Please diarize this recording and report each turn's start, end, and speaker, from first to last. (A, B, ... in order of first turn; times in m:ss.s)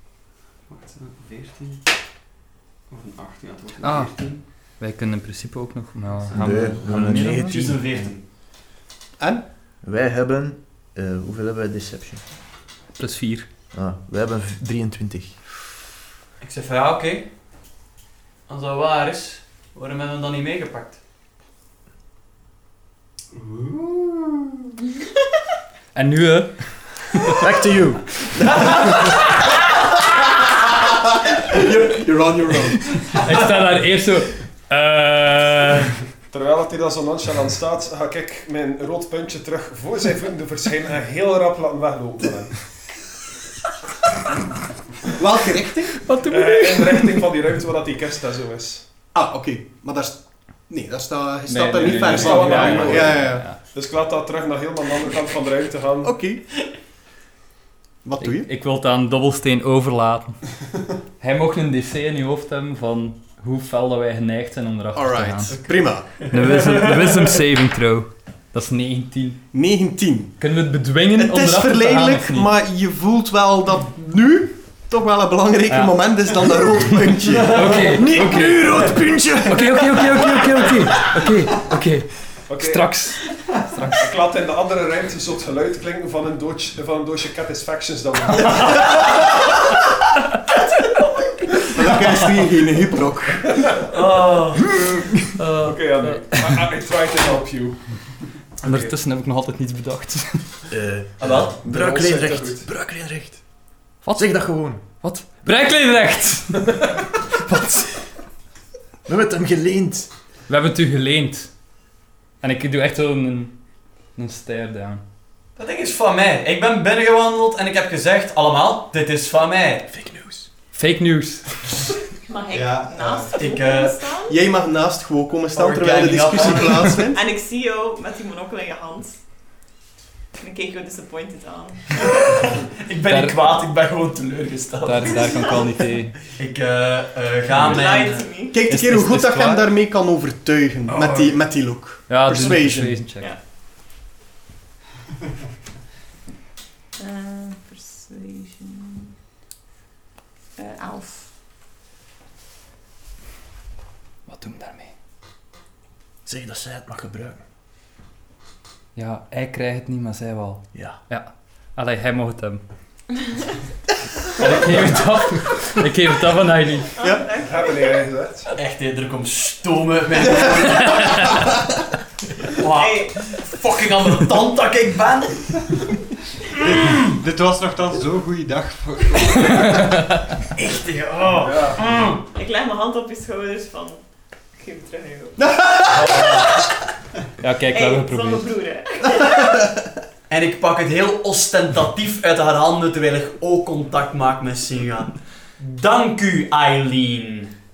0:00.7-0:01.9 A
0:02.9-0:04.4 A
0:03.8-0:07.6 B
0:06.3-0:08.3 A
0:06.3-0:08.1 C
0:09.2-0:09.4 D
0:09.8-0:12.2 C
0:12.9-0:13.5 B
0:13.7-0:15.4 C
0:16.4-0:17.3 A
0:18.5-0:21.0 A
0:23.3-0:24.5 E
0:25.9-0:27.4 B
0:27.4-0:28.2 C
0:28.5-0:29.2 D
0:30.8-0:33.2 D
0:33.1-0:36.0 B
0:36.3-0:42.7 F
0:45.2-0:46.1 D
0:46.0-0:47.2 B
0:46.2-0:48.8 F
0:49.1-0:53.6 D
0:51.5-0:53.6 B
0:51.9-0:56.1 F
0:56.0-0:56.5 D
0:58.0-0:58.5 D
0:58.2-1:00.5 B
1:01.2-1:09.4 B
1:04.9-1:06.3 D
1:09.5-1:10.5 D
1:10.4-1:12.5 B
1:11.1-1:17.8 D
1:15.7-1:18.8 B
1:17.4-1:17.9 A
1:17.9-1:19.9 C
1:19.4-1:24.1 B
1:22.5-1:23.0 F
1:23.9-1:28.8 F
1:31.7-1:33.5 D
1:33.9-1:34.7 A
1:35.4-1:36.6 B
1:35.6-1:38.9 F
1:38.6-1:40.7 B
1:40.7-1:43.4 C
1:41.2-1:41.9 A
1:41.6-1:42.6 F
1:44.0-1:44.8 C
1:44.0-1:48.0 B
1:49.0-1:50.1 C
1:50.5-1:51.5 B
1:52.4-1:53.6 B
1:54.1-1:55.0 B
1:55.6-1:59.9 A
1:59.9-2:00.5 C
2:00.7-2:01.7 B
2:02.3-2:04.4 G
2:02.5-2:03.4 E
2:03.4-2:04.0 A
2:04.3-2:07.3 D
2:05.5-2:07.0 A
2:07.1-2:09.2 G
2:10.4-2:12.4 G
2:12.8-2:15.2 A
2:13.1-2:13.4 B
2:14.8-2:16.1 B
2:15.1-2:15.6 G
2:16.4-2:18.3 A
2:17.5-2:17.8 B
2:17.6-2:18.6 G
2:18.5-2:23.1 D
2:18.6-2:19.7 B
2:20.9-2:21.4 A
2:22.1-2:23.3 B
2:27.0-2:29.1 G
2:30.6-2:31.3 G
2:34.3-2:34.9 B
2:36.2-2:37.4 C
2:38.9-2:42.6 B
2:40.7-2:41.0 C
2:44.4-2:46.9 B
2:47.0-2:48.0 G
2:47.0-2:47.3 D
2:47.4-2:48.5 F
2:48.5-2:51.5 A
2:52.4-2:55.8 A
2:52.6-2:53.1 G
2:56.7-2:57.0 A
2:56.8-2:59.9 E
2:59.7-3:00.1 B
3:00.6-3:02.2 A
3:01.3-3:01.9 F
3:02.3-3:05.4 G
3:05.4-3:06.6 D
3:05.9-3:06.3 F
3:07.4-3:08.5 B
3:07.7-3:09.5 G
3:10.3-3:17.5 A